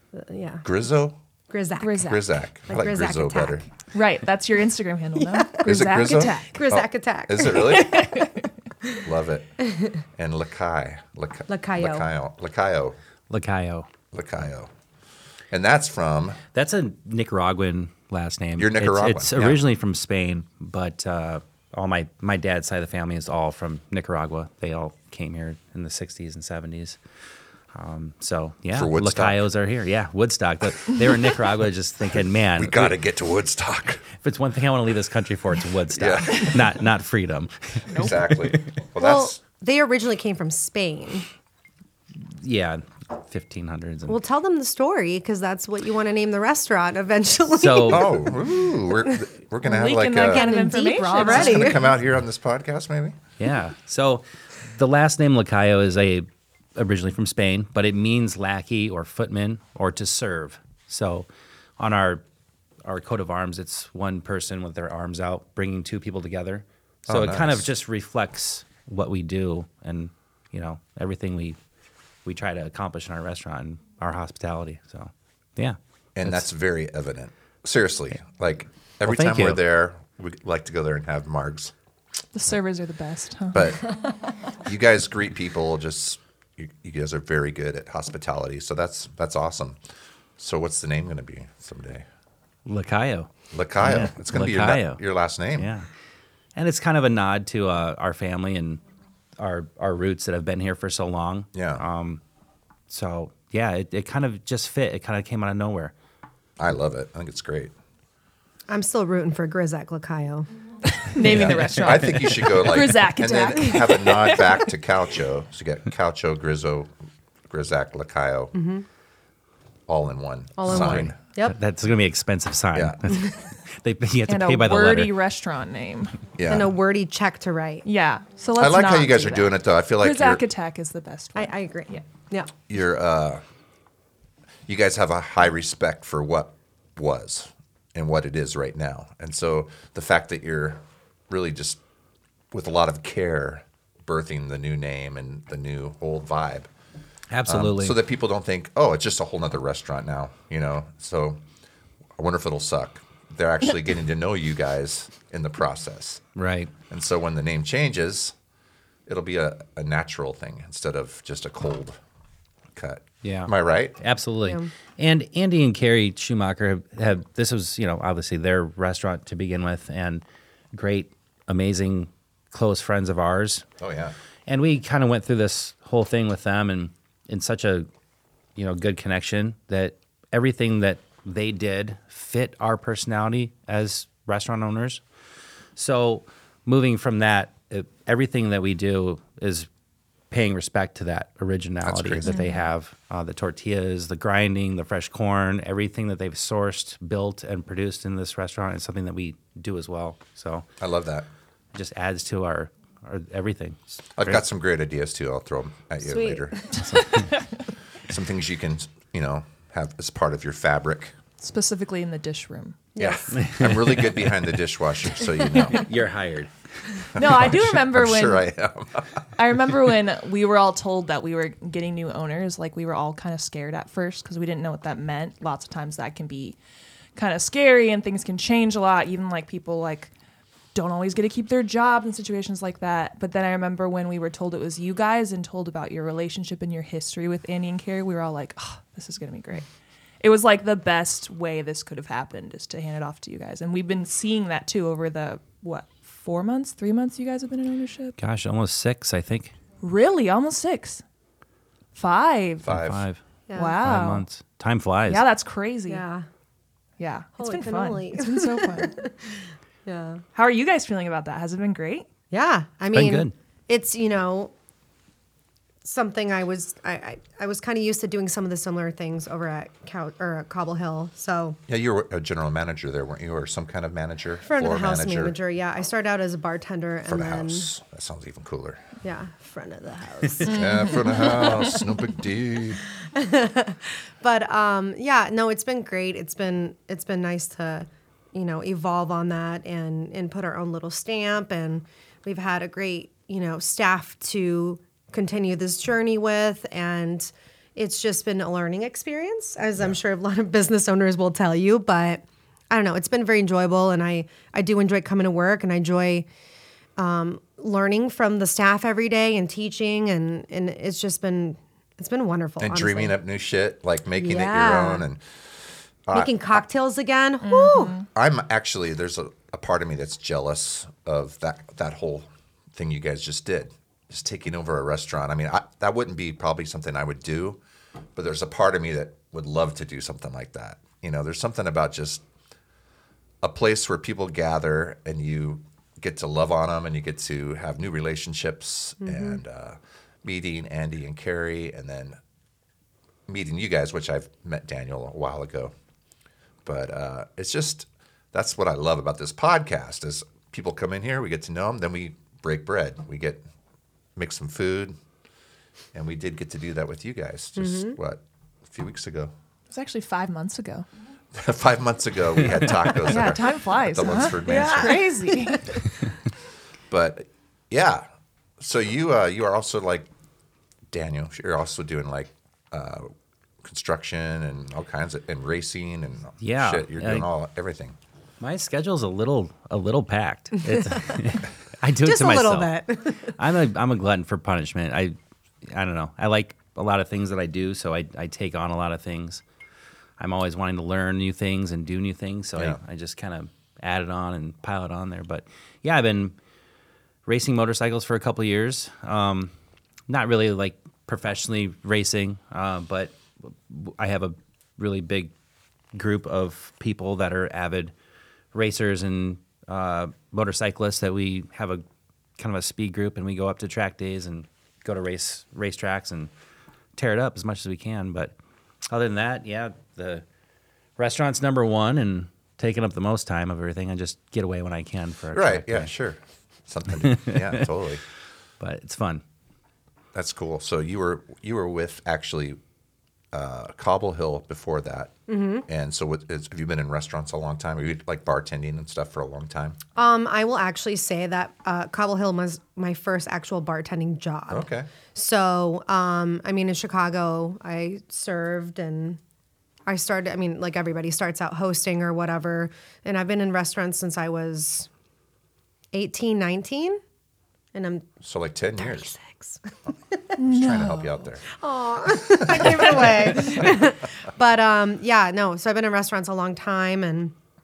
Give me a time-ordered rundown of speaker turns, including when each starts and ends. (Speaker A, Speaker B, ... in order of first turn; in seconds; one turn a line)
Speaker A: 0.1-0.6
Speaker B: 0.6-1.2
Speaker A: 1.5-2.0
Speaker C: 1.8-2.2
Speaker B: 2.0-3.7
Speaker A: 2.7-3.6
Speaker C: 3.9-6.5
Speaker A: 5.2-8.2
Speaker B: 5.6-8.2
Speaker C: 7.7-8.4
Speaker B: 9.0-9.6
Speaker A: 9.6-10.0
Speaker B: 10.1-13.0
Speaker A: 11.5-12.1
Speaker D: 13.3-13.9
Speaker B: 14.1-14.7
Speaker B: 15.5-16.4
Speaker D: 16.5-27.0
Speaker B: 18.6-19.6
Speaker D: 27.7-33.0
Speaker B: 28.7-29.5
Speaker B: 32.6-34.0
Speaker D: 34.1-38.6
Speaker B: 36.0-36.8
Speaker B: 38.0-39.4
Speaker A: 39.0-41.3
Speaker D: 42.1-44.2
Speaker A: 44.1-48.3
Speaker D: 47.5-48.1
Speaker B: 47.9-50.5
Speaker C: 49.6-51.9
Speaker A: 50.2-51.9
Speaker B: 51.2-53.2
Speaker D: 53.4-61.3
Speaker D: 61.8-62.2
Speaker D: 62.8-71.6
Speaker B: 67.1-67.7
Speaker D: 72.2-76.5
Speaker B: 76.2-81.7
Speaker D: 79.0-79.6
Speaker C: 82.3-83.7
Speaker B: 83.5-83.9
Speaker B: 84.5-89.8
Speaker B: 90.4-92.0
Speaker D: 92.7-95.0
Speaker B: 93.5-95.7
Speaker D: 95.5-95.9
Speaker D: 96.5-98.8
Speaker D: 99.4-102.2
Speaker B: 101.5-101.8
Speaker D: 102.9-105.9
Speaker B: 106.6-107.7
Speaker A: 108.7-110.5
Speaker C: 110.9-114.7
Speaker D: 111.2-112.2
Speaker B: 111.2-116.9
Speaker A: 113.2-113.6
Speaker B: 117.5-118.5
Speaker A: 118.5-118.8
Speaker B: 119.9-121.2
Speaker A: 120.6-121.5
Speaker D: 120.7-125.2
Speaker B: 122.7-123.1
Speaker C: 124.3-126.2
Speaker B: 126.4-126.7
Speaker A: 126.5-127.9
Speaker C: 127.8-132.0
Speaker B: 128.6-130.4
Speaker A: 131.3-132.5
Speaker B: 132.7-133.4
Speaker B: 134.7-141.8
Speaker B: 142.5-146.7
Speaker D: 147.3-148.0
Speaker B: 147.5-151.4
Speaker B: 152.2-156.2
Speaker D: 156.4-156.7
Speaker B: 156.9-158.3
Speaker B: 159.1-162.0
Speaker B: 162.8-164.0
Speaker D: 163.2-173.7
Speaker B: 173.8-174.1
Speaker D: 174.5-177.9
Speaker D: 178.6-185.0
Speaker D: 185.8-189.7
Speaker D: 190.3-200.7
Speaker B: 191.8-192.4
Speaker C: 192.3-192.6
Speaker B: 200.8-201.3
Speaker D: 201.7-204.4
Speaker B: 204.2-206.7
Speaker A: 206.0-206.6
Speaker C: 206.8-207.4
Speaker B: 208.1-211.2
Speaker C: 211.4-212.9
Speaker A: 213.0-213.4
Speaker B: 213.0-215.9
Speaker D: 213.3-214.3
Speaker D: 215.5-216.5
Speaker B: 217.2-219.3
Speaker C: 217.2-218.5
Speaker C: 219.4-226.6
Speaker C: 227.2-230.1
Speaker C: 230.7-239.7
Speaker C: 240.2-248.2
Speaker D: 248.2-249.6
Speaker C: 249.8-251.0
Speaker C: 251.9-252.7
Speaker B: 252.6-253.1
Speaker D: 252.7-253.2
Speaker A: 253.5-253.8
Speaker C: 253.6-254.2
Speaker D: 253.8-255.3
Speaker C: 255.1-256.0
Speaker A: 255.9-256.3
Speaker C: 257.0-259.1
Speaker A: 257.4-259.3
Speaker A: 259.9-260.2
Speaker C: 260.4-262.1
Speaker A: 262.3-264.5
Speaker D: 262.9-263.3
Speaker A: 265.8-271.6
Speaker B: 271.7-275.4
Speaker A: 274.4-277.7
Speaker B: 277.1-278.8
Speaker A: 279.0-281.8
Speaker B: 280.4-282.8
Speaker C: 280.5-281.5
Speaker A: 283.1-306.3
Speaker A: 307.0-313.2
Speaker B: 312.6-315.2
Speaker A: 314.2-315.1
Speaker B: 316.1-316.6
Speaker A: 316.1-318.0
Speaker C: 317.4-318.1
Speaker B: 318.1-327.6
Speaker B: 328.2-332.2
Speaker B: 333.4-342.2
Speaker A: 339.0-339.4
Speaker B: 343.3-345.7
Speaker B: 346.6-353.4
Speaker B: 354.2-355.0
Speaker B: 355.9-359.3
Speaker A: 357.6-358.0
Speaker C: 359.7-360.9
Speaker B: 361.3-365.1
Speaker C: 362.9-365.7
Speaker A: 364.4-365.8
Speaker B: 366.9-368.1
Speaker B: 368.6-370.1
Speaker B: 370.9-373.1
Speaker B: 373.6-378.0
Speaker D: 376.4-377.3
Speaker D: 378.4-389.4
Speaker A: 382.0-383.3
Speaker D: 390.2-396.4
Speaker D: 397.3-399.5
Speaker D: 400.1-405.3
Speaker D: 405.9-407.9
Speaker D: 408.5-411.8
Speaker D: 412.4-416.3
Speaker D: 417.0-418.4
Speaker D: 418.9-420.2
Speaker D: 421.0-425.9
Speaker B: 425.3-428.0
Speaker D: 427.0-427.6
Speaker D: 428.6-429.2
Speaker B: 430.1-432.6
Speaker B: 433.3-435.1
Speaker A: 435.3-435.6
Speaker B: 435.7-439.8
Speaker A: 440.0-449.2
Speaker B: 444.5-444.9
Speaker A: 449.9-454.9
Speaker A: 455.9-457.0
Speaker A: 457.7-458.1
Speaker B: 458.2-459.1
Speaker A: 458.8-459.6
Speaker C: 460.4-461.1
Speaker B: 460.5-461.4
Speaker A: 461.5-467.3
Speaker B: 462.4-463.7